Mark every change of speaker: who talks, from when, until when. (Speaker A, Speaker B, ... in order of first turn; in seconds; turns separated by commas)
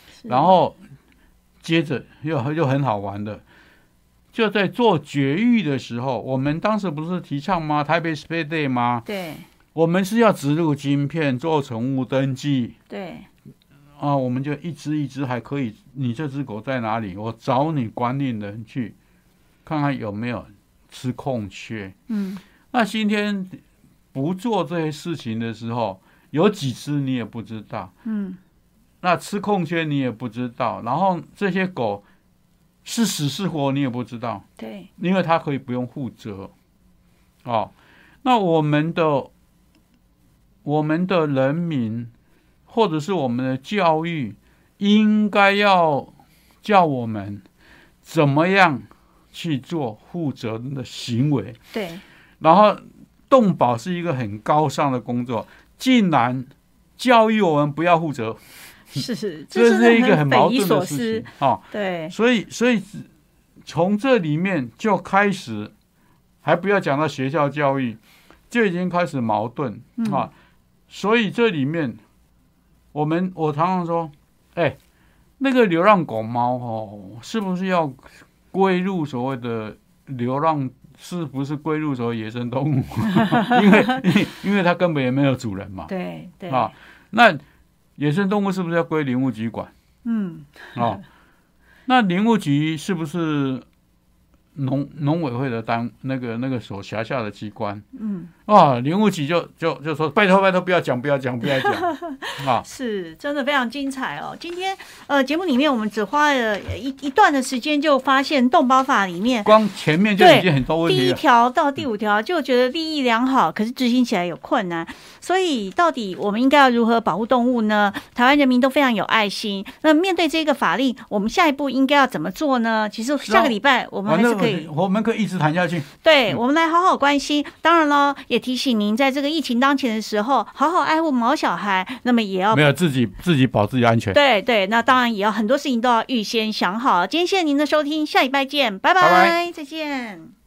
Speaker A: 0.2-0.5, Speaker B: 0.3-0.8, Speaker B: 1.6-3.4, Speaker B: 4.3-9.1, Speaker A: 9.1-9.5, Speaker B: 9.8-12.8, Speaker A: 12.9-13.3, Speaker B: 14.0-18.9, Speaker B: 19.7-21.9, Speaker A: 22.1-22.4, Speaker B: 22.7-23.6, Speaker B: 24.1-27.9, Speaker A: 28.1-28.4, Speaker B: 29.0-32.0, Speaker B: 32.9-34.5, Speaker A: 34.6-34.9, Speaker B: 35.0-36.5, Speaker B: 37.4-37.7, Speaker B: 38.2-39.3, Speaker B: 40.6-42.1, Speaker B: 42.7-47.4, Speaker B: 48.0-51.6, Speaker A: 51.7-52.0, Speaker B: 52.4-58.4, Speaker A: 58.9-62.1, Speaker B: 59.5-63.1, Speaker B: 63.6-65.7, Speaker B: 66.4-70.3, Speaker A: 70.0-70.3, Speaker B: 70.9-72.0, Speaker B: 72.9-74.8, Speaker B: 75.4-85.9, Speaker A: 85.9-86.7, Speaker B: 86.5-87.4, Speaker B: 88.0-89.7, Speaker A: 90.0-91.0, Speaker B: 90.8-91.0, Speaker B: 91.9-93.7, Speaker B: 94.5-97.8, Speaker A: 98.0-98.3, Speaker B: 98.5-102.7, Speaker A: 101.5-109.5, Speaker B: 109.5-111.2, Speaker A: 110.2-124.7, Speaker B: 123.3-126.4, Speaker A: 126.0-132.7, Speaker B: 132.5-134.2, Speaker A: 134.1-140.3, Speaker B: 139.0-139.4